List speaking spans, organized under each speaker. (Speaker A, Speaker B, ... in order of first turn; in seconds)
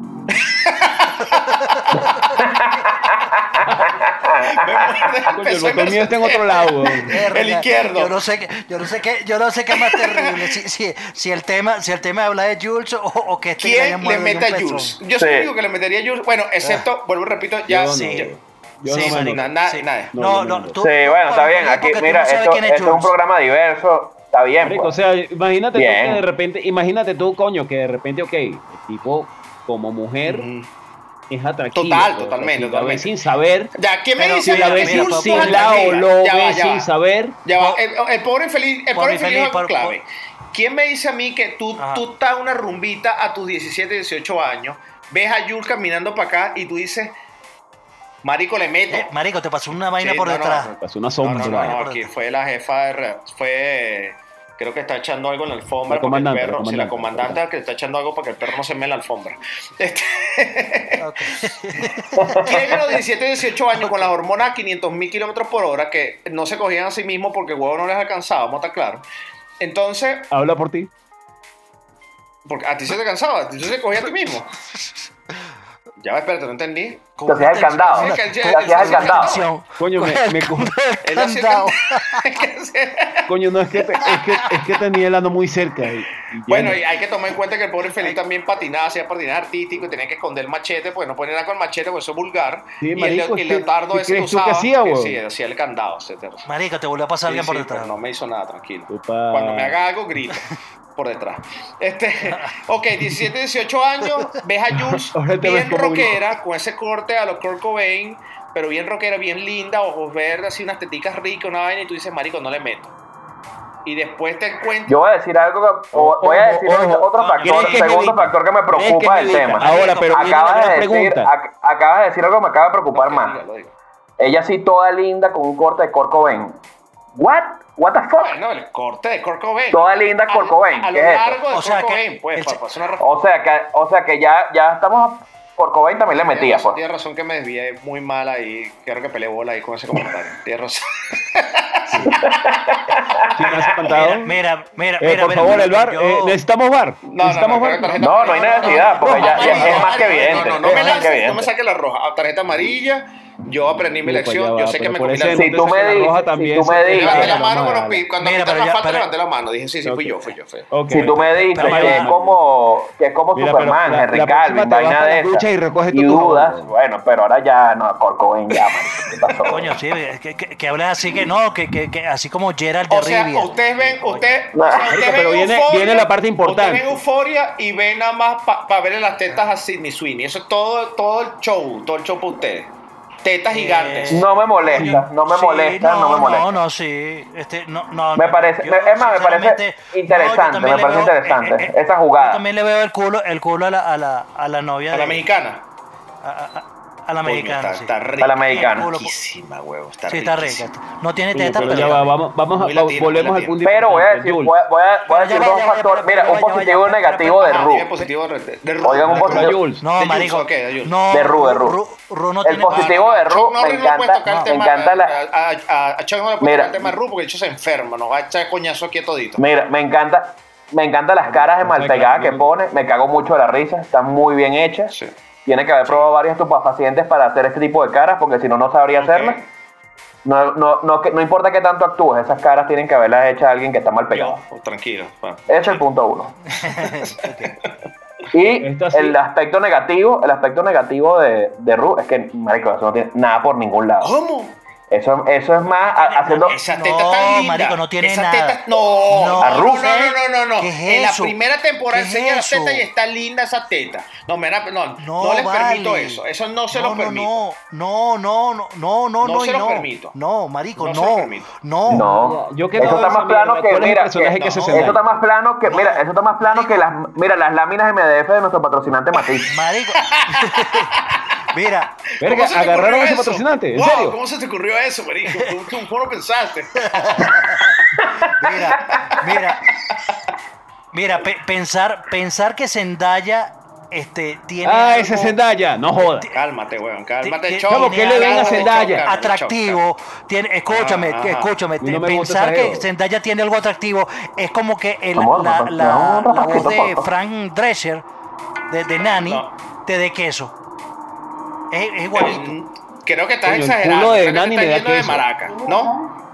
Speaker A: 0.3-2.2, 4.3-8.1, 9.7-10.4, 13.6-18.4, 18.9-20.1, 30.2-30.7, 31.7-33.1, 33.8-36.9, 37.4-47.1, 48.2-49.1, 50.0-61.8, 62.4-69.0, 69.6-70.3, 72.5-74.5, 76.0-77.1, 77.9-79.5, 81.0-83.3, 86.5-96.5, 97.3-112.9, 113.8-115.0, 119.6-119.9, 122.9-123.7, 128.2-133.1, 136.1-142.4, 143.9-144.2, 147.1-155.8, 156.9-160.7, 172.9-182.7, 183.2-184.3, 194.9-195.6, 197.2-200.7, 201.6-203.6, 207.4-211.2, 212.7-219.4, 228.9-229.5, 234.1-235.8, 236.7-237.7, 244.0-244.6, 246.4-257.4, 259.2-260.1, 260.8-261.5, 264.4-264.8, 270.0-271.2, 272.2-277.7, 278.8-279.4, 286.3-289.8, 290.7-291.5, 299.1-299.5, 302.1-305.9
Speaker B: 2.4-5.3, 15.2-15.5, 20.8-25.0, 25.7-26.2, 62.1-62.8, 77.3-79.5, 114.9-123.4, 124.2-126.6, 127.1-128.4, 129.7-131.4, 133.0-136.8, 142.2-143.4, 148.0-151.5, 155.3-157.4, 160.9-169.7, 174.5-175.0, 184.1-186.6, 188.2-192.4, 198.2-198.9, 203.6-207.9, 208.8-209.6, 211.1-211.8, 212.4-215.2, 216.4-216.9, 219.4-229.4, 230.2-234.4, 235.5-236.3, 238.3-244.2, 244.9-246.6, 249.4-249.9, 261.9-269.5, 278.5-278.8, 295.1-297.1
Speaker C: 5.3-7.1, 17.7-19.5, 20.1-20.8, 24.6-30.5, 31.3-33.7, 34.4-37.4, 50.7-51.8, 55.9-57.4, 70.3-70.9, 79.8-80.7, 83.3-86.8, 92.8-95.2, 98.9-99.8, 104.7-106.3, 115.9-121.3, 141.9-142.2, 143.3-144.3, 145.0-149.9, 154.0-158.0, 159.8-160.1, 160.7-162.4, 163.3-166.7, 174.9-177.0, 201.3-204.6, 209.0-209.8, 221.2-222.5, 238.6-239.2, 261.9-265.0, 272.2-274.1, 284.6-286.3, 287.7-289.1, 291.8-292.8, 303.4-305.3
Speaker D: 7.1-15.0, 17.9-23.1, 34.2-36.1, 38.9-40.0, 41.8-42.0, 48.9-50.7, 51.4-52.1, 61.0-62.8, 63.7-64.1, 77.2-82.4, 96.5-98.0, 117.2-117.9, 119.4-120.3, 131.5-132.6, 144.0-146.4, 148.4-151.1, 158.2-159.1, 160.9-162.1, 169.4-174.4, 183.5-195.2, 196.2-197.9, 198.5-199.1, 200.1-202.1, 205.1-207.7, 209.8-213.1, 214.3-214.6, 236.6-237.6, 245.9-251.4, 251.9-252.9, 255.0-262.1, 264.5-264.8, 265.6-266.8, 269.5-270.9, 271.5-271.9, 276.9-277.8, 278.4-279.7, 280.9-285.4, 286.0-286.4, 287.2-298.0, 298.7-300.5, 301.7-302.6